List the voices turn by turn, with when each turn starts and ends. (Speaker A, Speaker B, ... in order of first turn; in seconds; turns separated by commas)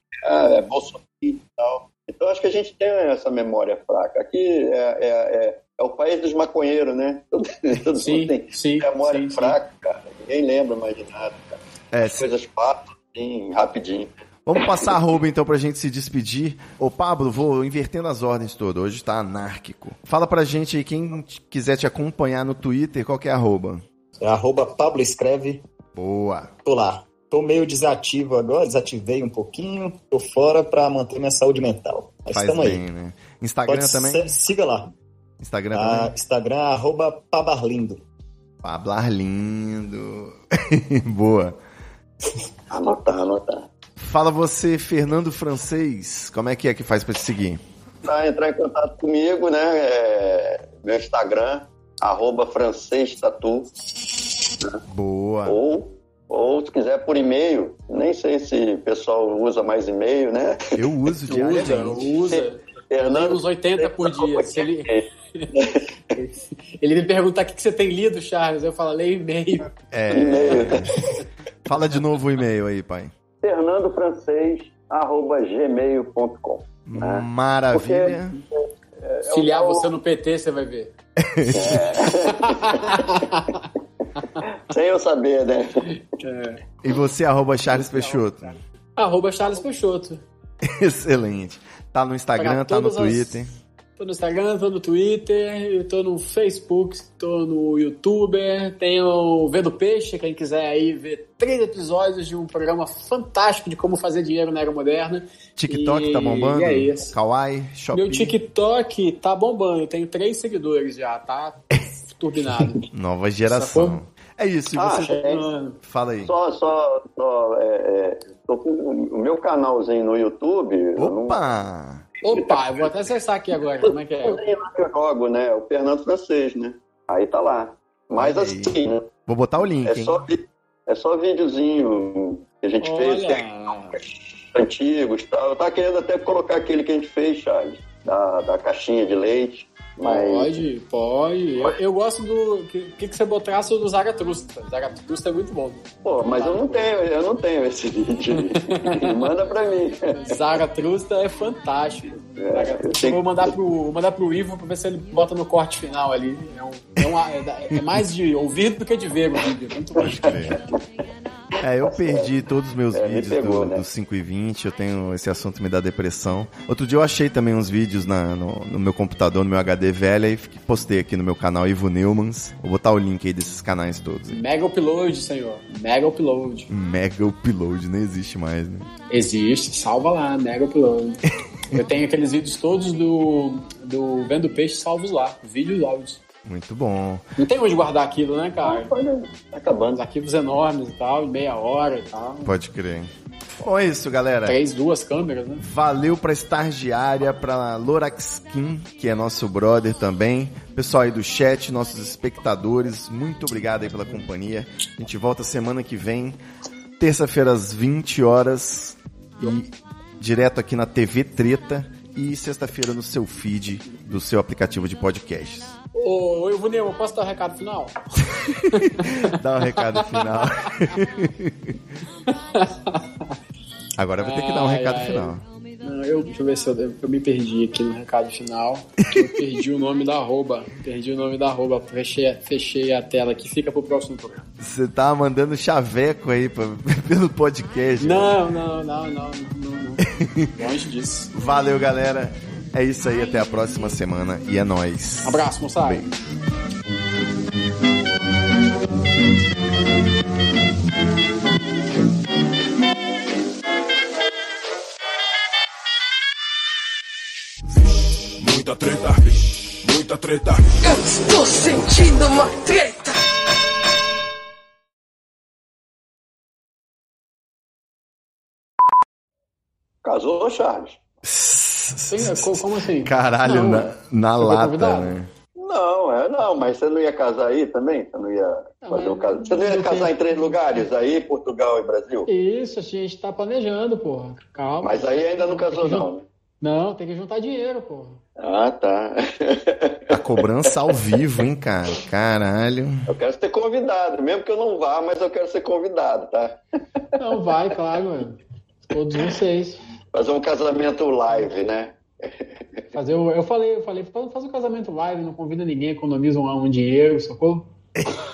Speaker A: 0.2-14.9, Speaker B: 8.0-9.6, Speaker C: 11.9-12.3, Speaker C: 14.4-23.8, Speaker D: 24.2-25.6, Speaker C: 25.9-26.5, Speaker D: 26.6-32.8, Speaker C: 32.3-34.3, Speaker D: 33.6-34.9, Speaker C: 35.4-36.1, Speaker D: 35.7-38.0, Speaker C: 38.6-41.6, Speaker A: 42.7-43.7, Speaker C: 44.0-47.6, Speaker A: 48.0-53.7, Speaker C: 54.9-55.6, Speaker A: 55.5-60.9, Speaker C: 60.8-62.1, Speaker B: 61.2-69.7, Speaker A: 62.2-65.8, Speaker C: 69.9-73.1, Speaker A: 70.1-71.0, Speaker A: 73.4-79.9, Speaker C: 76.8-78.4, Speaker B: 79.3-80.9, Speaker C: 81.2-82.0, Speaker A: 81.5-83.2, Speaker B: 82.3-83.7, Speaker A: 84.4-85.9, Speaker B: 86.2-86.6, Speaker C: 86.8-88.6, Speaker B: 87.7-88.2, Speaker B: 89.0-90.2, Speaker C: 90.6-93.5, Speaker B: 92.4-93.4, Speaker B: 94.0-107.1, Speaker C: 105.5-108.3, Speaker B: 107.9-112.8, Speaker C: 112.9-115.2, Speaker B: 113.5-114.0, Speaker A: 114.7-115.5, Speaker B: 115.0-115.8, Speaker C: 115.8-116.3, Speaker A: 116.2-121.4, Speaker C: 121.0-122.1, Speaker B: 122.2-124.4, Speaker A: 122.3-122.6, Speaker A: 124.2-129.1, Speaker C: 128.2-128.7, Speaker C: 129.2-130.2, Speaker A: 129.8-133.4, Speaker B: 132.8-134.0, Speaker A: 133.9-140.5, Speaker B: 140.0-147.0, Speaker A: 146.0-150.1, Speaker B: 148.3-149.3, Speaker B: 150.1-160.6, Speaker A: 152.3-153.5, Speaker C: 160.0-160.6, Speaker A: 160.0-160.6, Speaker C: 161.6-174.4, Speaker A: 161.8-162.3, Speaker A: 162.9-163.8, Speaker B: 174.3-176.7, Speaker C: 176.7-178.9, Speaker B: 179.1-181.2, Speaker B: 181.7-186.2, Speaker C: 186.4-187.2, Speaker B: 187.4-188.9, Speaker A: 188.6-190.0, Speaker B: 189.9-192.5, Speaker C: 192.4-194.6, Speaker B: 194.4-195.6, Speaker C: 195.6-206.4, Speaker C: 207.0-215.7, Speaker B: 215.9-217.9, Speaker C: 218.4-221.8, Speaker B: 218.7-219.2, Speaker B: 219.8-220.2, Speaker B: 222.3-223.4, Speaker C: 223.9-225.4, Speaker B: 224.2-234.5, Speaker C: 234.6-238.4, Speaker B: 238.0-241.3, Speaker C: 240.2-240.5, Speaker C: 241.3-246.1, Speaker B: 245.2-246.0, Speaker E: 258.4-260.8, Speaker F: 260.8-263.2, Speaker A: 270.0-271.0, Speaker C: 271.2-275.3, Speaker B: 272.1-275.1, Speaker A: 275.6-282.3, Speaker B: 278.8-280.6, Speaker B: 282.3-286.1, Speaker A: 284.8-286.2, Speaker B: 286.6-288.2, Speaker A: 288.4-291.1, Speaker C: 290.1-293.0, Speaker A: 293.1-297.1, Speaker B: 297.2-298.4, Speaker B: 298.9-299.8, Speaker A: 300.1-302.8, Speaker B: 302.9-307.7, Speaker C: 307.9-308.2